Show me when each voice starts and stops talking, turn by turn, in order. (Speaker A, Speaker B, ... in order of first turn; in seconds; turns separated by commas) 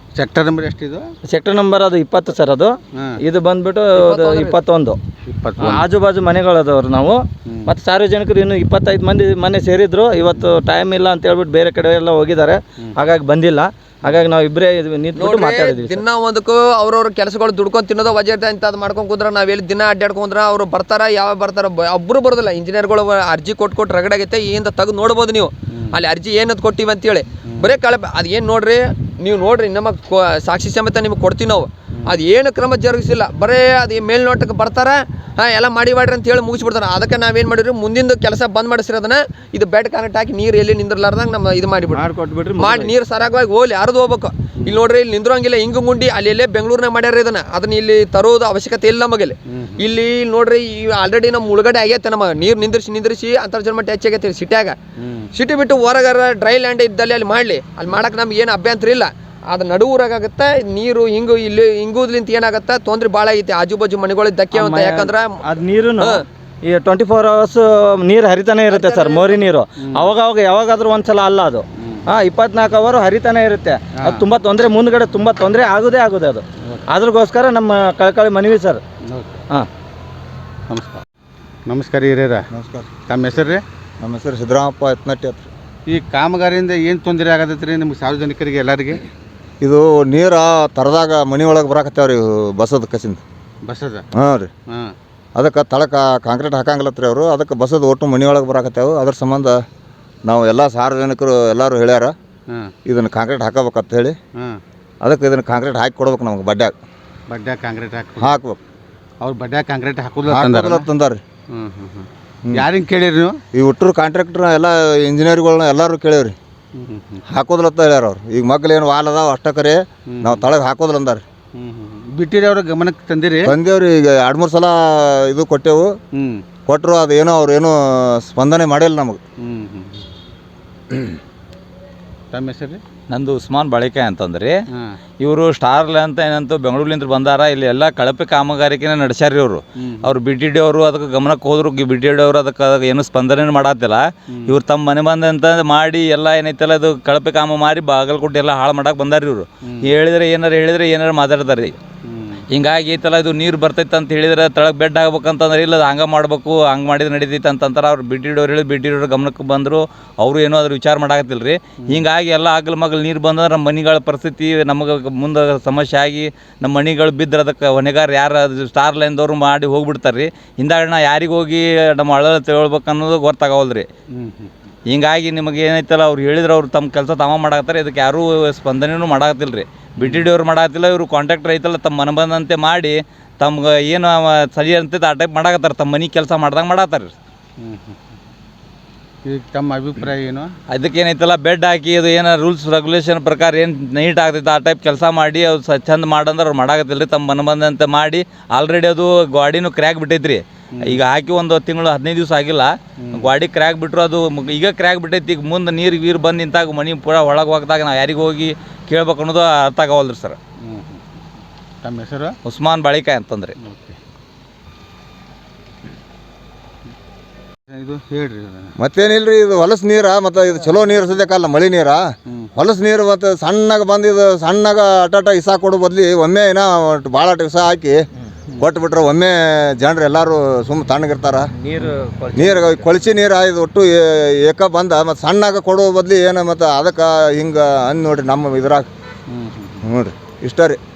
Speaker A: 0.1-1.0, Speaker B: 1.3-5.0, Speaker A: 2.9-3.2, Speaker C: 4.0-4.6, Speaker A: 5.2-5.8, Speaker B: 5.6-16.0, Speaker C: 15.2-42.0, Speaker B: 41.9-42.9, Speaker C: 42.6-54.8, Speaker A: 49.5-49.8, Speaker A: 55.0-55.3, Speaker C: 55.3-65.4, Speaker B: 64.5-78.8, Speaker C: 68.7-69.5, Speaker A: 74.0-74.2, Speaker A: 79.0-79.4, Speaker A: 80.7-81.0, Speaker A: 81.7-82.4, Speaker D: 82.5-82.9, Speaker A: 83.0-83.6, Speaker D: 84.0-85.5, Speaker A: 85.9-89.0, Speaker D: 89.6-93.2, Speaker A: 93.6-94.0, Speaker D: 94.1-94.5, Speaker A: 94.7-94.9, Speaker D: 95.3-99.6, Speaker D: 100.2-102.1, Speaker D: 102.8-104.2, Speaker D: 105.0-106.7, Speaker A: 107.3-108.4, Speaker D: 108.2-108.6, Speaker A: 109.2-110.9, Speaker D: 110.3-111.2, Speaker A: 111.5-113.4, Speaker D: 113.5-116.3, Speaker A: 116.7-117.2, Speaker D: 117.3-121.2, Speaker A: 120.1-120.5, Speaker A: 121.5-123.5, Speaker D: 123.4-125.9, Speaker A: 126.1-126.4, Speaker D: 126.7-129.2, Speaker A: 129.4-130.0, Speaker A: 132.3-132.8, Speaker E: 133.1-134.6, Speaker E: 135.2-151.8, Speaker A: 139.8-140.2, Speaker A: 144.3-144.6, Speaker A: 149.6-149.9, Speaker A: 152.1-152.4, Speaker E: 152.5-173.9, Speaker A: 174.1-174.5, Speaker E: 174.9-187.1, Speaker A: 180.0-180.3, Speaker A: 187.6-188.0, Speaker A: 189.2-190.5, Speaker E: 190.7-210.4, Speaker A: 200.7-201.0, Speaker A: 203.0-203.3, Speaker A: 210.6-211.0, Speaker A: 211.8-212.3, Speaker E: 212.4-213.5, Speaker A: 213.6-214.0, Speaker A: 217.7-218.7, Speaker D: 218.8-222.0, Speaker D: 222.6-228.0, Speaker D: 228.6-231.5, Speaker B: 231.5-232.9, Speaker D: 232.3-238.9, Speaker A: 239.3-239.8, Speaker D: 239.8-240.8